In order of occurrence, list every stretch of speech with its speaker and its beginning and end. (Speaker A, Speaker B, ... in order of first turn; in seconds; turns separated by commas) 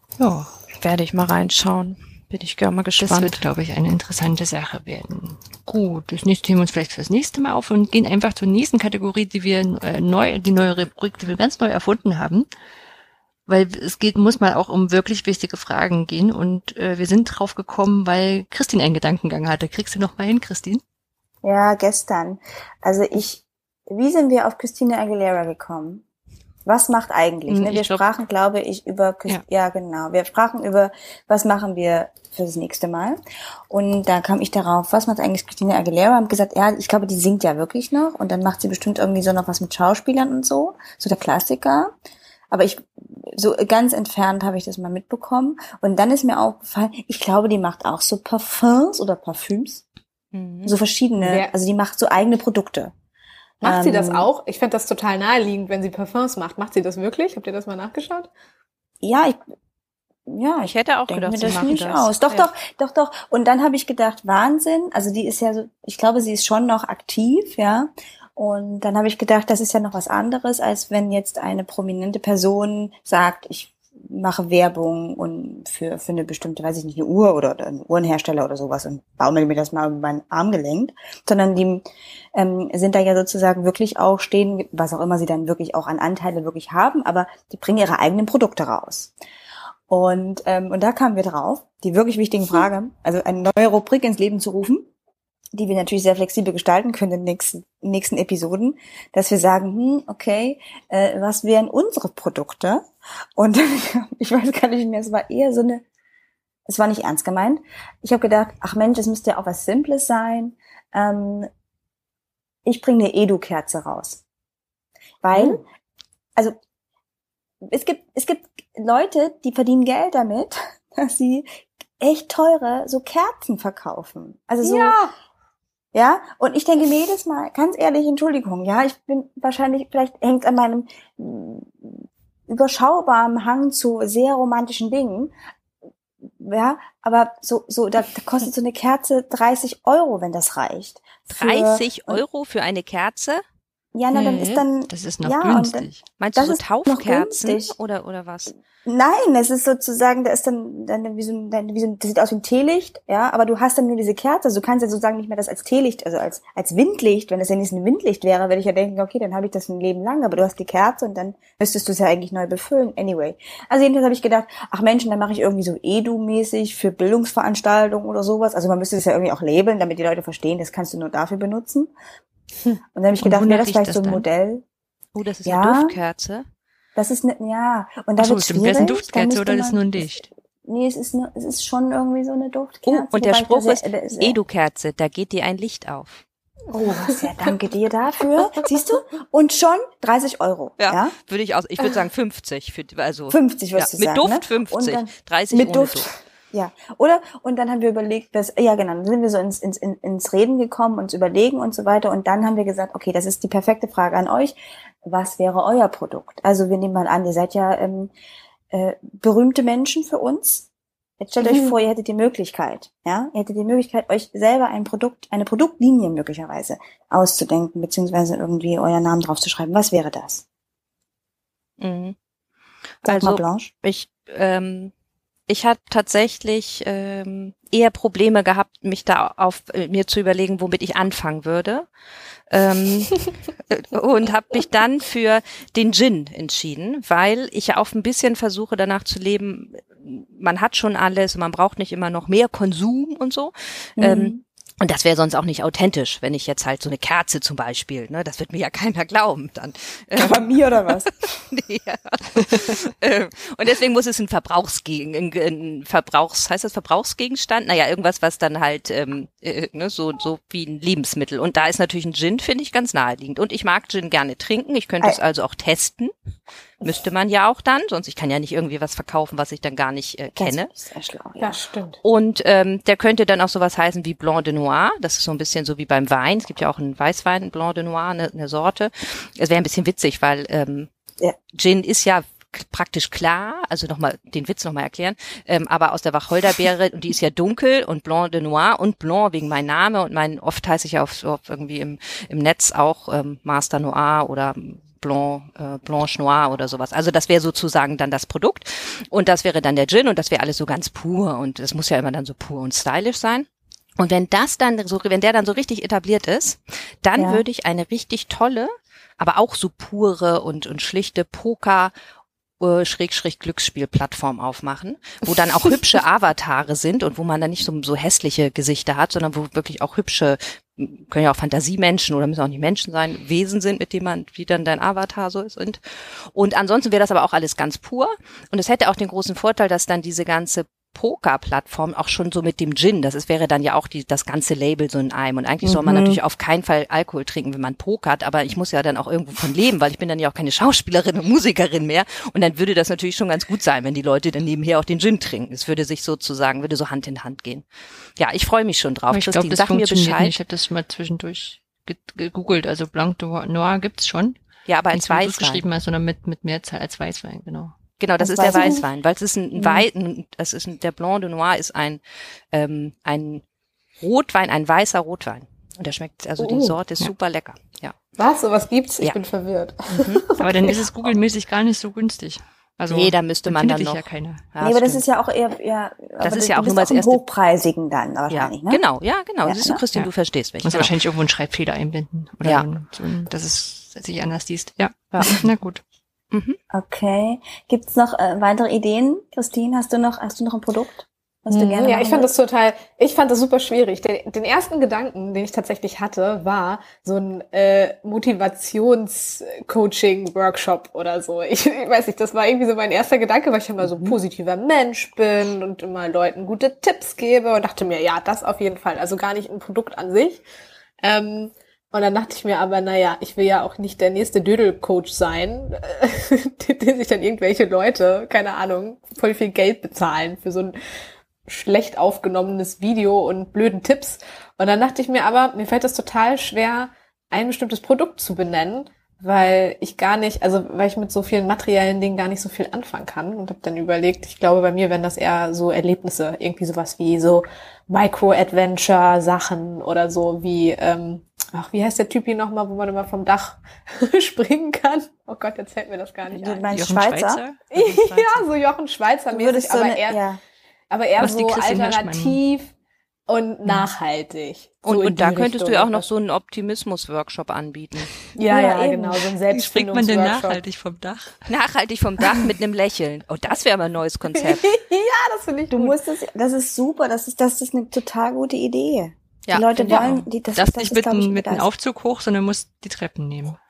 Speaker A: 0.2-0.5, Speaker B: 0.7-3.4, Speaker A: 3.0-12.5, Speaker A: 13.5-20.8, Speaker C: 21.4-26.0, Speaker C: 26.7-33.2, Speaker B: 27.5-28.0, Speaker C: 33.7-41.9, Speaker C: 42.5-49.8, Speaker B: 50.3-50.7, Speaker C: 50.7-52.9, Speaker D: 51.2-51.5, Speaker C: 53.6-54.3, Speaker D: 53.6-58.3, Speaker C: 59.0-59.4, Speaker C: 60.3-89.1, Speaker B: 60.6-62.1, Speaker C: 89.9-94.9, Speaker C: 95.5-102.8, Speaker C: 103.4-105.8, Speaker C: 106.7-111.5, Speaker C: 112.7-114.2, Speaker C: 115.2-115.6, Speaker C: 117.6-125.0, Speaker D: 124.6-125.1, Speaker C: 125.9-135.3, Speaker C: 136.2-142.2, Speaker B: 141.3-143.4, Speaker C: 143.9-147.8, Speaker A: 144.1-146.0, Speaker B: 146.2-148.5, Speaker C: 148.8-171.9, Speaker C: 172.9-174.6, Speaker A: 173.2-174.3, Speaker B: 175.1-176.5, Speaker C: 175.4-176.0, Speaker C: 177.0-184.4, Speaker A: 178.2-180.3, Speaker B: 182.9-186.2, Speaker C: 186.7-191.1, Speaker D: 186.9-187.2, Speaker B: 190.8-196.1, Speaker C: 193.3-208.1, Speaker C: 208.7-210.7, Speaker C: 211.2-220.4, Speaker D: 211.4-211.7, Speaker B: 221.8-222.2, Speaker B: 223.0-224.9, Speaker C: 223.1-223.7, Speaker B: 225.5-231.9, Speaker B: 232.5-266.1, Speaker C: 244.0-244.4, Speaker C: 250.2-251.3, Speaker B: 266.8-270.7, Speaker C: 270.4-271.6, Speaker D: 271.4-272.0, Speaker B: 272.0-280.9, Speaker B: 281.5-311.9, Speaker C: 307.2-307.4, Speaker B: 312.6-347.7, Speaker C: 335.6-336.2, Speaker B: 348.2-350.4, Speaker A: 349.1-354.4, Speaker B: 354.7-355.6, Speaker A: 354.9-357.8, Speaker B: 358.0-362.0, Speaker C: 358.2-358.8, Speaker B: 362.5-363.4, Speaker B: 364.0-368.0, Speaker D: 366.4-366.8, Speaker D: 368.2-370.8, Speaker B: 369.9-370.3, Speaker A: 370.4-374.4, Speaker B: 372.9-375.0, Speaker C: 374.6-378.8, Speaker B: 376.2-377.2, Speaker B: 378.3-380.9, Speaker C: 379.4-379.8, Speaker A: 380.6-385.8, Speaker B: 386.3-386.6, Speaker C: 386.7-392.3, Speaker D: 391.5-410.4, Speaker D: 411.0-420.8, Speaker D: 421.5-446.7, Speaker C: 446.3-447.4, Speaker A: 446.7-448.5, Speaker D: 447.7-450.2, Speaker C: 449.3-450.4, Speaker D: 450.9-452.7, Speaker A: 451.2-452.4, Speaker D: 453.3-456.1, Speaker B: 454.8-458.1, Speaker D: 458.3-460.6, Speaker C: 458.5-459.3, Speaker A: 459.5-461.5, Speaker B: 461.5-464.7, Speaker D: 464.3-466.0, Speaker C: 465.7-471.7, Speaker B: 469.5-470.2, Speaker A: 469.9-473.6